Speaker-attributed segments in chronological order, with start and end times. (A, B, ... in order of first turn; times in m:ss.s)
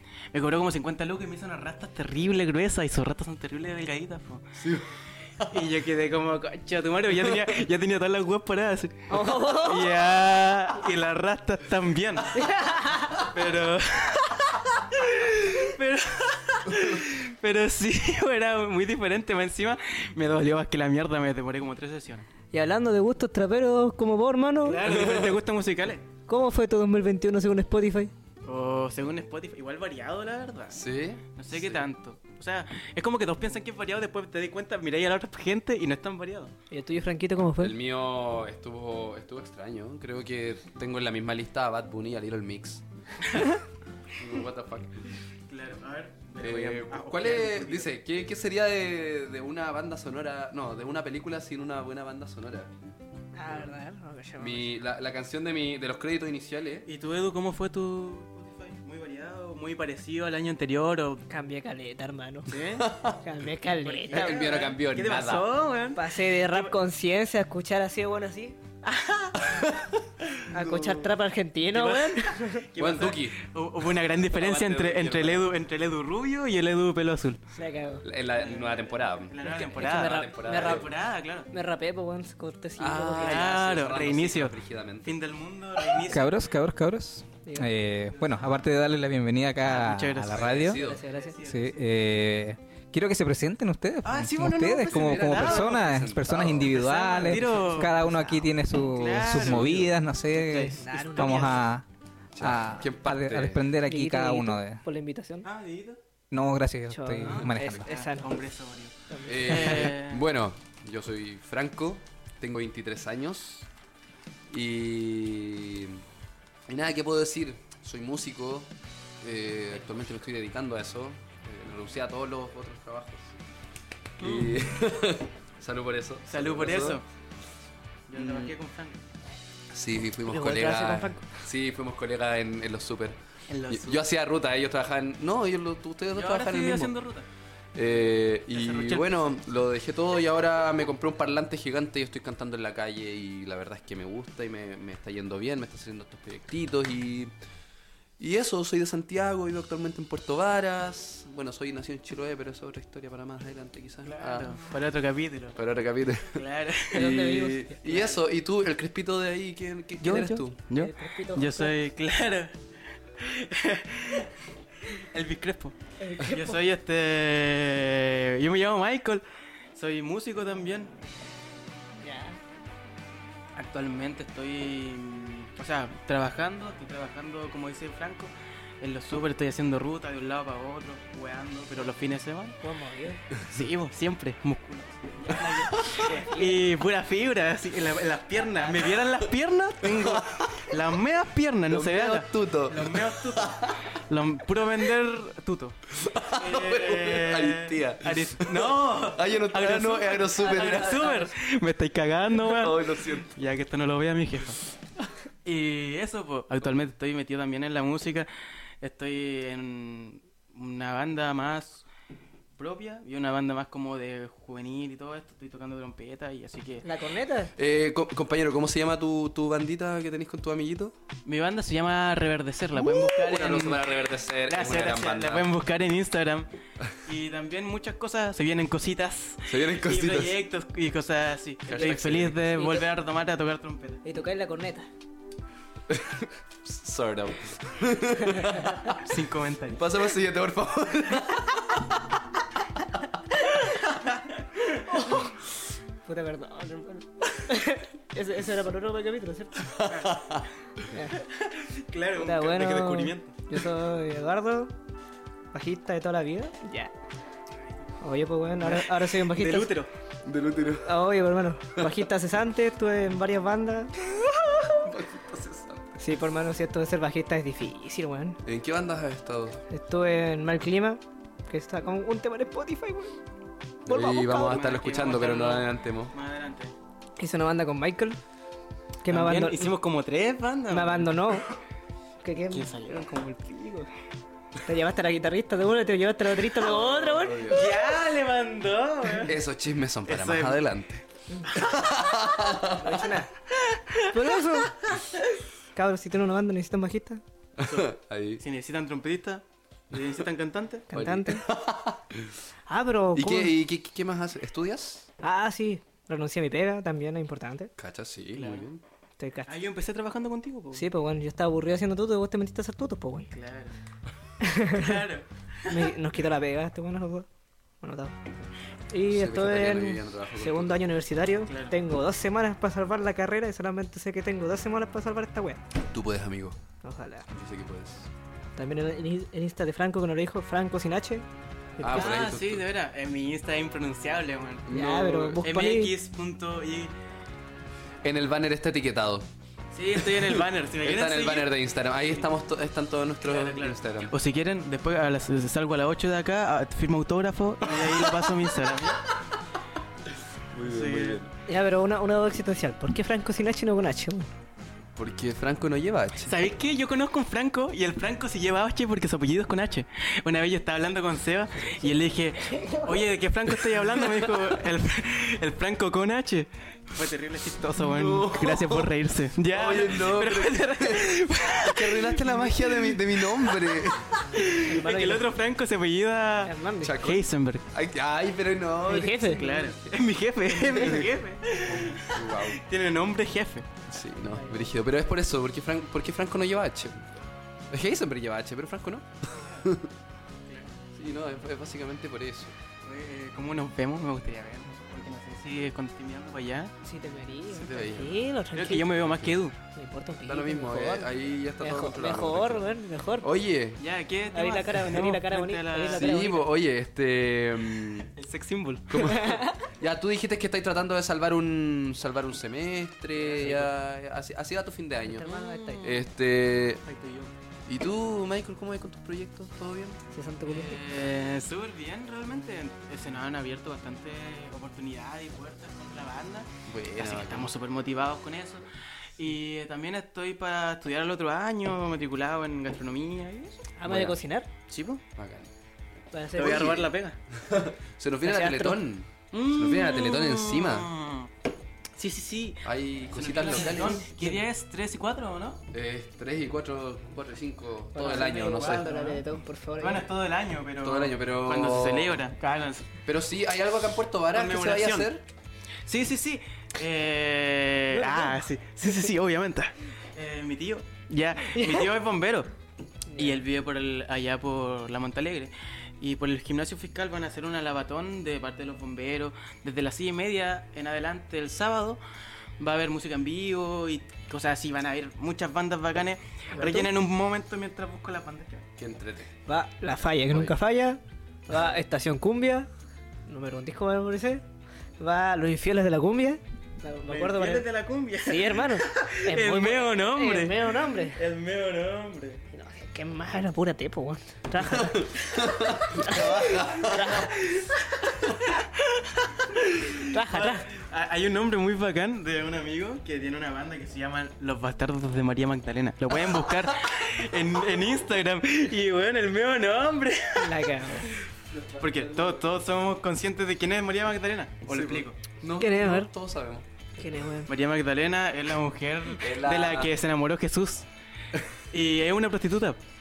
0:00.3-0:04.6 A
0:04.6-0:05.6 B
0:05.5-0:12.4 A
0:09.1-0:10.0 C
0:12.3-0:13.2 C
0:13.2-0:22.3 A
0:22.5-0:24.8 C
0:24.6-0:26.1 A
0:24.8-0:25.4 B
0:26.3-0:28.1 C
0:28.5-0:36.5 A
0:30.7-0:31.9 B
0:36.7-0:37.8 C
0:37.6-0:42.8 B
0:44.2-0:45.0 B
0:45.5-0:47.9 A
0:46.4-0:52.9 B
0:53.3-0:54.7 C
0:53.5-0:53.7 B
0:54.4-0:56.9 B
0:56.8-1:01.2 A
1:01.3-1:02.5 C
1:02.5-1:02.9 A
1:02.8-1:03.2 B
1:03.2-1:04.6 C
1:03.8-1:06.8 A
1:04.1-1:05.5 B
1:06.0-1:08.6 C
1:08.8-1:09.4 A
1:09.4-1:10.0 B
1:10.5-1:12.7 C
1:10.5-1:11.0 B
1:11.7-1:17.4 A
1:12.8-1:13.4 B
1:14.3-1:15.5 B
1:17.5-1:18.0 C
1:18.0-1:20.9 B
1:18.3-1:21.5 A
1:19.4-1:20.8 C
1:21.5-1:23.4 C
1:22.8-1:25.2 B
1:23.2-1:26.4 A
1:26.1-1:30.8 D
1:29.6-1:31.8 A
1:30.3-1:31.0 B
1:30.8-1:31.4 C
1:31.4-1:41.8 D
1:34.0-1:35.8 A
1:34.9-1:37.0 B
1:36.5-1:37.9 A
1:37.1-1:38.5 C
1:38.9-1:39.9 A
1:40.3-1:41.7 C
1:40.5-1:41.6 A
1:42.3-1:43.7 B
1:42.4-1:44.8 D
1:43.8-1:45.5 C
1:45.4-1:46.0 A
1:46.3-1:47.9 D
1:46.9-1:48.3 C
1:47.2-1:50.2 A
1:47.4-1:47.8 B
1:49.1-1:49.9 C
1:49.3-1:53.7 B
1:54.5-1:56.0 B
1:56.7-1:58.7 B
1:59.2-2:03.3 B
2:04.2-2:04.6 A
2:04.2-2:07.0 B
2:06.3-2:07.0 A
2:08.1-2:09.0 A
2:08.2-2:08.6 B
2:09.7-2:13.2 B
2:10.3-2:11.3 C
2:13.5-2:14.1 A
2:13.7-2:16.9 B
2:16.1-2:17.3 A
2:17.7-2:27.3 B
2:18.5-2:19.2 A
2:28.2-2:34.6 B
2:34.0-2:35.6 A
2:35.6-2:40.6 B
2:36.3-2:37.2 A
2:36.9-2:37.7 C
2:37.8-2:38.2 A
2:40.0-2:42.5 A
2:40.8-2:41.7 C
2:43.2-2:44.3 A
2:44.9-2:50.9 A
2:46.0-2:46.6 C
2:52.0-2:52.4 C
2:53.5-3:02.6 A
3:02.6-3:03.2 C
3:03.4-3:15.8 A
3:05.5-3:06.0 B
3:06.0-3:06.6 C
3:09.8-3:10.7 B
3:11.7-3:13.8 B
3:15.9-3:21.3 B
3:16.3-3:24.6 A
3:22.4-3:23.3 B
3:25.4-3:28.3 A
3:28.8-3:31.8 A
3:32.6-3:36.9 A
3:36.8-3:37.5 C
3:37.6-3:41.0 B
3:41.3-3:46.5 A
3:42.8-3:45.5 B
3:47.0-3:54.0 A
3:49.5-3:50.4 B
3:51.7-3:52.4 B
3:52.5-3:52.8 C
3:54.0-3:54.9 C
3:55.9-3:59.1 B
3:58.9-3:59.8 A
3:59.7-4:02.2 B
4:04.9-4:05.3 C
4:06.0-4:09.7 C
4:09.6-4:10.5 B
4:09.9-4:10.2 A
4:10.9-4:11.2 C
4:11.2-4:13.4 A
4:12.2-4:14.7 C
4:15.5-4:16.9 C
4:18.0-4:19.7 C
4:18.6-4:19.9 A
4:20.2-4:21.0 B
4:20.8-4:24.8 C
4:21.7-4:22.0 B
4:24.8-4:26.0 B
4:26.0-4:28.4 C
4:28.4-4:29.6 B
4:29.7-4:33.2 C
4:33.8-4:36.1 B
4:33.9-4:34.6 C
4:34.2-4:36.7 A
4:37.2-4:38.2 C
4:39.0-4:39.7 C
4:39.1-4:41.2 A
4:40.7-4:41.5 C
4:42.2-4:43.2 C
4:42.5-4:43.8 A
4:44.6-4:47.7 C
4:46.6-4:49.4 A
4:47.1-4:47.7 B
4:49.2-4:53.1 B
4:50.0-4:50.7 A
4:51.3-4:51.6 C
4:52.7-4:53.3 C
4:53.7-4:54.0 A
4:54.1-4:54.8 C
4:55.8-4:57.2 C
4:57.6-4:58.4 B
4:57.6-5:00.9 A
5:00.9-5:01.5 C
5:00.9-5:02.4 B
5:02.7-5:03.5 C
5:03.1-5:05.1 B
5:05.2-5:07.7 C
5:07.8-5:08.8 B
5:08.3-5:08.6 A
5:09.2-5:09.5 C
5:09.5-5:10.9 A
5:10.8-5:13.3 C
5:13.3-5:13.8 A
5:14.4-5:15.1 C
5:14.6-5:15.9 A
5:15.7-5:17.3 C
5:17.8-5:18.2 C
5:18.9-5:25.6 C
5:19.1-5:20.8 B
5:21.5-5:21.8 A
5:25.9-5:26.6 B
5:26.8-5:27.3 C
5:27.3-5:28.1 B
5:28.6-5:31.2 C
5:31.8-5:32.1 C
5:31.8-5:32.7 B
5:31.9-5:36.9 A
5:34.7-5:35.4 B
5:34.7-5:35.9 C
5:38.0-5:39.3 B
5:39.7-5:41.5 A
5:40.0-5:44.1 B
5:43.2-5:49.0 A
5:47.7-5:48.1 B
5:50.5-5:51.3 B
5:50.6-5:51.2 A
5:51.5-5:54.3 C
5:55.0-5:56.4 B
5:56.2-6:13.6 A
6:02.5-6:02.9 C
6:04.1-6:04.4 B
6:07.8-6:08.9 B
6:09.5-6:14.4 B
6:14.3-6:17.7 A
6:14.5-6:15.2 C
6:16.4-6:17.0 C
6:16.8-6:19.4 B
6:18.9-6:19.7 C
6:19.2-6:23.7 A
6:21.7-6:22.6 B
6:23.9-6:27.2 B
6:24.3-6:24.7 C
6:27.7-6:29.9 B
6:30.9-6:32.5 B
6:32.9-6:36.7 A
6:36.8-6:38.9 C
6:37.5-6:38.2 B
6:38.5-6:39.6 A
6:39.0-6:39.4 B
6:39.7-6:43.3 C
6:40.2-6:42.7 B
6:43.2-6:43.8 B
6:43.8-6:46.2 A
6:44.3-6:46.5 C
6:45.9-6:48.1 B
6:48.2-6:49.2 A
6:48.9-6:55.3 B
6:49.0-6:49.7 C
6:53.2-6:53.7 A
6:55.0-6:56.0 C
6:55.2-6:56.0 A
6:55.8-6:56.8 B
6:56.9-6:57.3 A
6:57.7-7:00.0 B
7:00.1-7:00.8 C
7:00.5-7:08.6 A
7:06.7-7:07.5 B
7:09.2-7:13.6 A
7:13.8-7:14.5 C
7:13.8-7:14.2 B
7:14.7-7:15.0 A
7:15.2-7:15.5 B
7:16.1-7:16.8 C
7:16.3-7:20.9 B
7:16.4-7:17.2 A
7:18.2-7:18.8 C
7:19.3-7:21.3 A
7:22.0-7:25.6 A
7:22.6-7:24.0 B
7:23.6-7:24.4 C
7:25.7-7:28.9 B
7:28.0-7:30.0 C
7:28.2-7:29.2 A
7:29.8-7:32.9 A
7:30.8-7:32.2 B
7:33.1-7:35.3 B
7:34.3-7:35.1 A
7:35.9-7:42.5 A
7:38.0-7:38.4 C
7:41.5-7:41.9 C
7:43.1-7:43.4 C
7:43.2-7:52.0 A
7:52.6-7:58.7 A
7:56.6-7:56.9 C
7:58.8-7:59.3 B
7:59.5-8:02.7 C
8:03.3-8:04.4 C
8:05.0-8:07.7 C
8:07.1-8:12.4 A
8:08.2-8:11.2 C
8:12.5-8:17.3 C
8:14.6-8:17.3 B
8:17.4-8:17.7 A
8:18.5-8:31.2 A
8:20.1-8:20.7 C
8:30.4-8:31.2 C
8:31.5-8:32.6 B
8:31.8-8:35.2 A
8:34.7-8:36.7 B
8:35.6-8:36.1 C
8:37.0-8:37.5 C
8:37.5-8:40.9 A
8:39.2-8:39.9 B
8:41.7-8:42.8 A